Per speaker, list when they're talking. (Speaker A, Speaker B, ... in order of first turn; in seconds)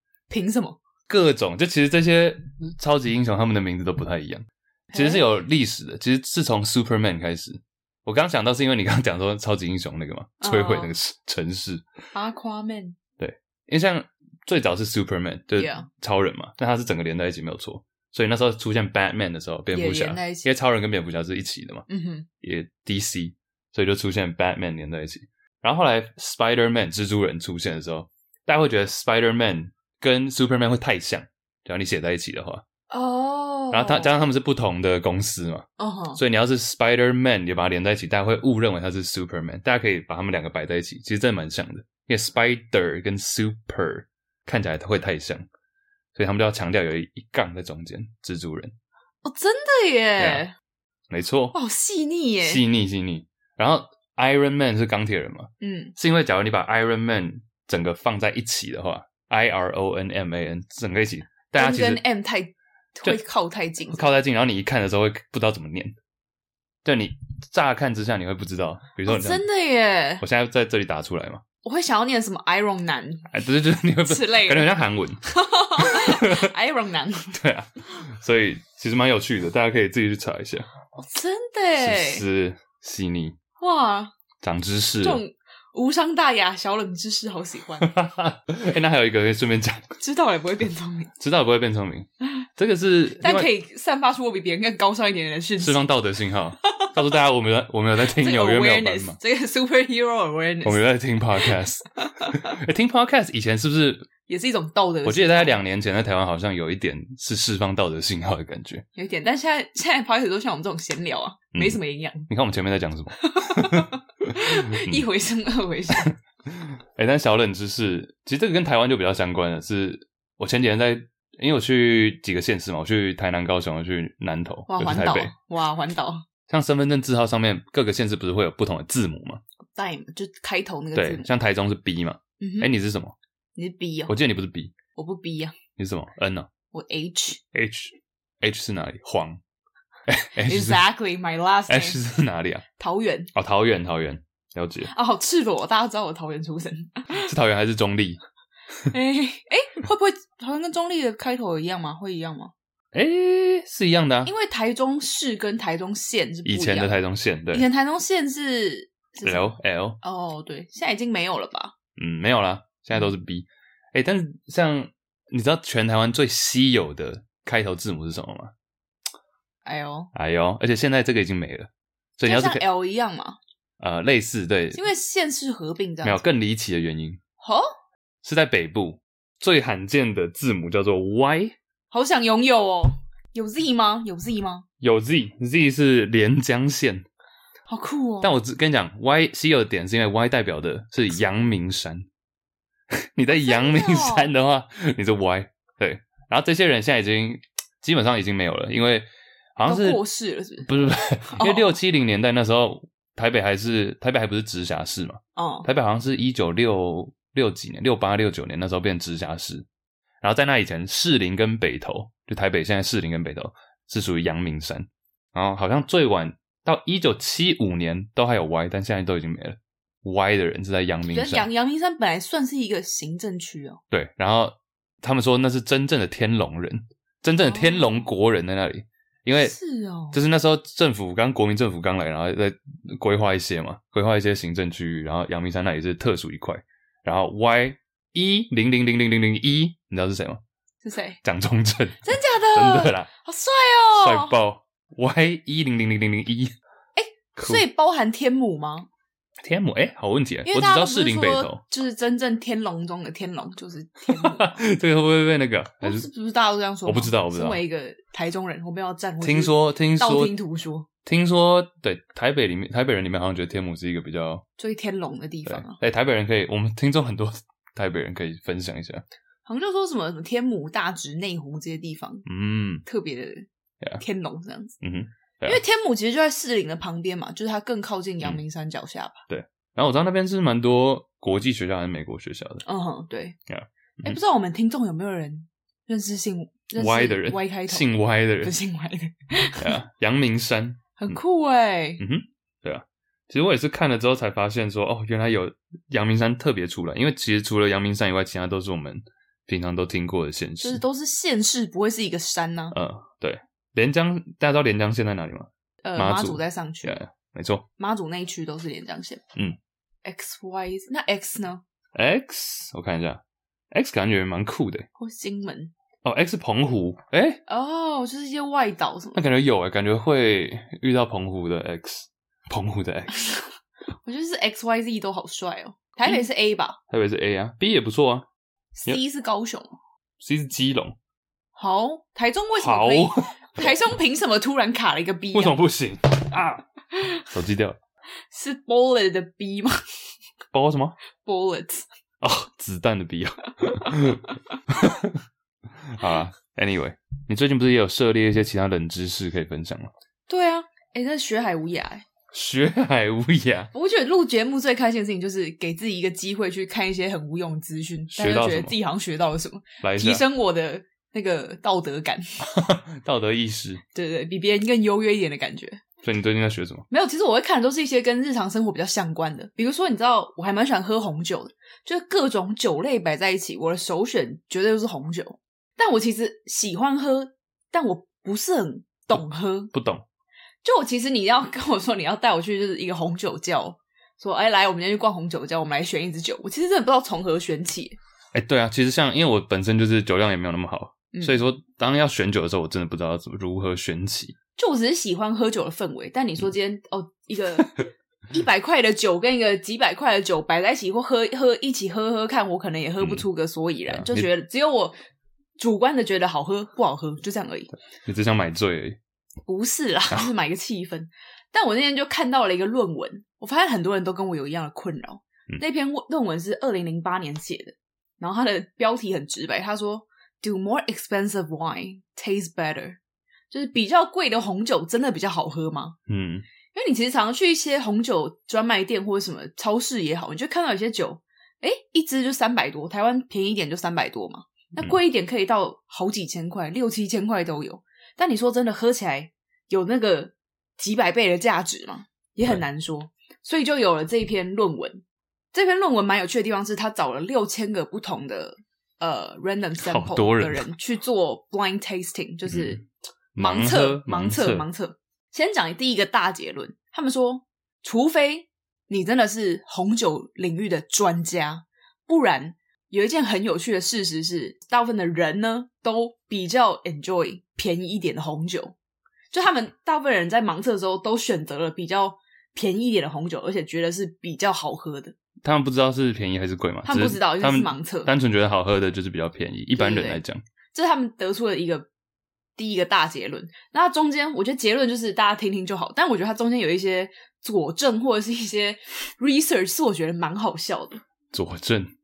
Speaker A: 0.3-0.8, 4.9-5.2, 10.4-10.9, 12.1-13.0, 15.6-15.9, 19.7-20.5, 21.9-22.3, 32.9-34.1, 35.8-36.2, 49.2-50.5, 51.5-52.6, 55.6-56.0, 61.6-64.1, 69.1-70.2, 71.6-73.3, 74.1-77.3, 81.0-82.2, 83.6-84.1, 85.0-87.9, 90.0-91.1, 93.2-95.9, 96.7-97.0, 98.0-100.8, 101.4-102.5, 104.3-105.6, 109.0-112.3, 113.2-116.1, 124.7-126.2, 129.8-131.3, 132.4-132.7, 133.6-134.1, 134.9-135.6, 136.7-137.4, 140.4-142.0, 142.8-143.3, 144.9-147.3, 148.9-152.5, 154.2-156.9, 157.5-161.7, 169.7-170.1, 172.3-173.4, 174.7-176.2, 177.4-177.7, 181.9-184.7, 187.7-188.3, 193.3-194.3, 199.7-201.8, 205.4-205.7, 221.1-223.8, 227.4-228.1, 229.4-230.2, 240.8-241.2, 242.0-244.3, 247.0-248.9, 250.4-254.6, 255.8-260.9, 264.6-265.8, 269.5-272.2, 272.9-273.5, 274.0-274.8, 275.4-279.2, 282.6-283.4, 284.0-287.9, 288.4-289.8, 291.0-292.0, 300.6-302.8, 305.8-307.0, 307.8-309.2, 310.1-311.6, 315.0-315.7, 317.5-319.2, 324.0-326.8, 328.8-329.8, 331.6-335.6, 336.9-337.2, 338.3-339.8, 341.2-341.9, 350.3-352.1, 353.7-362.5, 363.9-365.8, 366.9-379.7, 380.6-388.0, 391.1-391.4, 394.6-404.9, 405.6-407.7, 409.5-423.0, 423.5-426.0, 426.7-452.8, 453.4-468.8, 469.3-475.1, 476.9-478.1, 479.8-480.2, 480.7-481.9, 482.6-491.0
Speaker B: 1.1-11.8, 13.2-21.9, 22.4-32.6, 33.7-45.5, 46.1-48.8, 50.2-50.4, 51.1-51.5, 52.4-62.0, 63.9-65.9, 66.8-69.5, 70.2-71.4, 73.3-75.2, 75.8-76.5, 77.3-80.7, 81.8-83.4, 84.4-85.2, 87.8-89.9, 91.2-93.5, 95.6-99.2, 100.6-104.1, 105.0-108.8, 111.5-115.1, 115.9-125.3, 126.5-129.4, 130.9-133.2, 134.1-134.8, 135.8-136.5, 137.5-139.4, 140.1-140.8, 141.7-142.7, 143.3-144.9, 147.1-148.2, 152.9-154.3, 156.5-157.7, 159.2-160.0, 162.0-168.5, 170.1-172.6, 173.8-174.8, 176.0-177.2, 178.2-181.6, 184.8-187.1, 188.2-192.1, 192.9-200.0, 200.7-209.7, 210.2-221.5, 223.9-229.6, 230.1-240.4, 241.2-243.1, 243.9-246.5, 247.4-247.6, 249.4-251.6, 254.1-256.1, 256.9-257.6, 259.2-260.4, 261.1-264.4, 265.5-269.0, 272.2-272.9, 274.8-275.6, 279.3-282.6, 283.5-284.2, 286.8-288.5, 289.6-291.2, 292.0-300.8, 302.7-307.6, 311.9-313.2, 313.7-314.9, 316.1-317.4, 319.1-323.4, 326.9-328.3, 330.2-331.0, 332.6-333.8, 335.3-336.6, 337.3-337.8, 340.5-341.0, 342.2-345.2, 345.8-349.9, 352.3-353.7, 358.1-358.8, 359.8-360.2, 362.4-363.8, 366.0-366.9, 379.7-380.0, 388.3-394.4, 403.0-403.3, 403.9-404.3, 408.1-409.0, 426.1-426.5, 449.8-450.7, 452.5-452.8, 453.4-454.7, 475.4-480.4, 491.3-491.9